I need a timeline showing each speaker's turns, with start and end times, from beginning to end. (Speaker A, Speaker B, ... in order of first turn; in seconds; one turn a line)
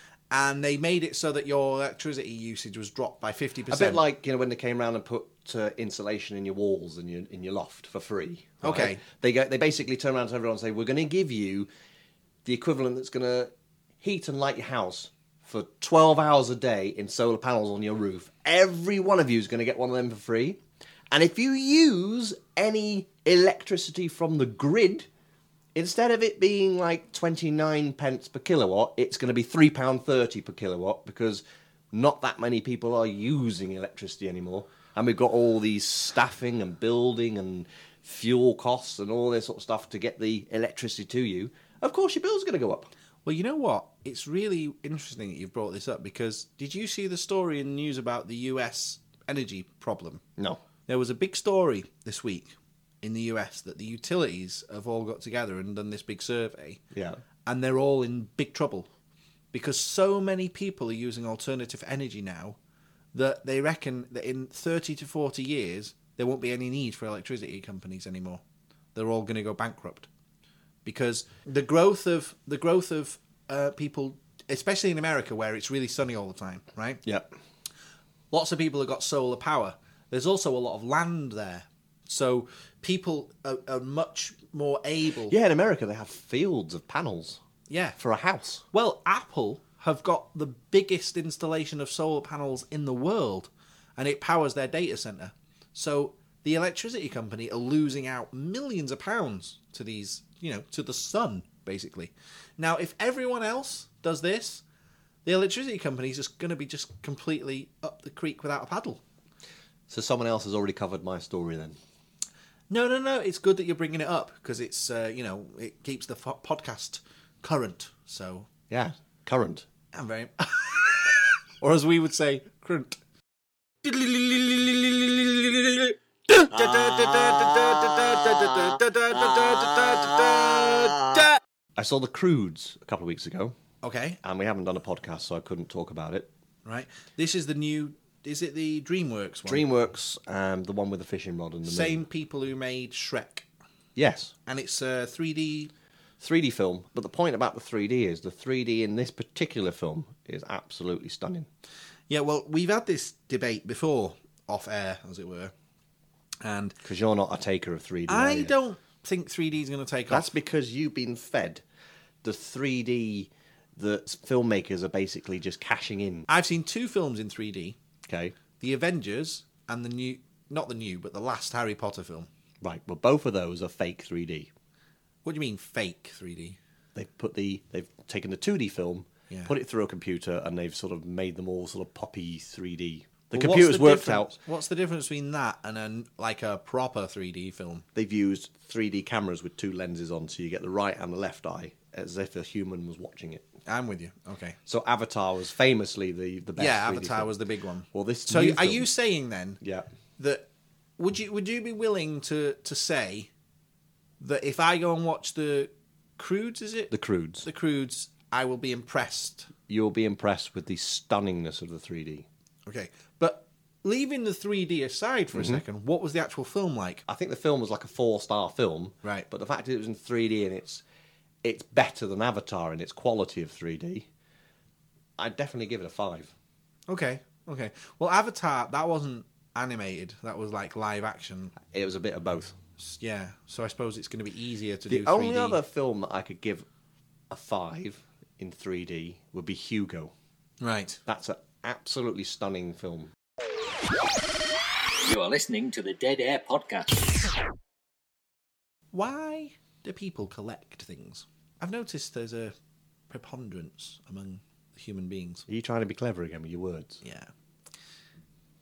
Speaker A: 0.3-4.0
Speaker B: 3.7-11.7
Speaker A: 8.6-9.0
Speaker B: 12.4-20.6
Speaker B: 21.1-25.1
Speaker B: 25.8-42.9
Speaker A: 43.2-50.2
Speaker B: 50.4-50.6
Speaker A: 50.9-56.8
Speaker B: 56.9-57.2
Speaker A: 57.5-58.9
Speaker A: 59.5-62.6
Speaker A: 63.1-68.4
Speaker A: 69.0-70.1
Speaker A: 70.8-77.0
Speaker B: 77.0-77.3
Speaker A: 78.3-85.3
Speaker B: 85.3-87.4
Speaker A: 87.7-88.0
Speaker B: 88.0-88.6
Speaker A: 88.7-104.6
Speaker A: 105.2-109.0
Speaker B: 109.9-111.8
Speaker A: 112.7-118.5
Speaker B: 118.7-119.7
Speaker A: 119.9-123.0
Speaker A: 123.8-131.4
Speaker B: 131.8-133.5
Speaker A: 133.8-134.2
Speaker B: 134.2-136.3
Speaker A: 136.7-139.7
Speaker B: 139.5-142.1
Speaker A: 141.6-143.5
Speaker B: 144.0-144.3
Speaker A: 144.5-145.7
Speaker B: 146.2-151.5
Speaker A: 152.1-155.5
Speaker A: 156.4-156.8
Speaker B: 156.8-158.6
Speaker A: 158.1-160.3
Speaker B: 160.1-161.6
Speaker B: 162.2-166.3
Speaker A: 166.3-167.8
Speaker B: 168.1-168.3
Speaker A: 168.6-172.3
Speaker B: 172.6-174.5
Speaker A: 175.2-176.6
Speaker B: 176.9-184.4
Speaker A: 183.3-187.8
Speaker B: 187.9-193.5
Speaker A: 193.7-194.6
Speaker B: 194.7-197.3
Speaker A: 196.6-199.6
Speaker B: 197.9-198.9
Speaker B: 199.6-199.9
Speaker A: 200.2-200.5
Speaker A: 201.0-203.3
Speaker A: 204.2-209.5
Speaker B: 206.9-207.5
Speaker B: 209.7-212.3
Speaker A: 212.7-217.0
Speaker B: 215.3-215.6
Speaker B: 217.1-220.8
Speaker B: 221.4-224.1
Speaker B: 225.2-226.3
Speaker A: 226.9-231.6
Speaker B: 231.6-232.6
Speaker A: 232.8-235.6
Speaker B: 234.9-236.7
Speaker B: 237.3-240.1
Speaker A: 240.6-241.0
Speaker B: 241.1-243.1
Speaker C: 245.0-247.2
Speaker A: 248.9-252.6
Speaker A: 253.1-255.4
Speaker B: 255.5-257.0
Speaker A: 257.0-257.3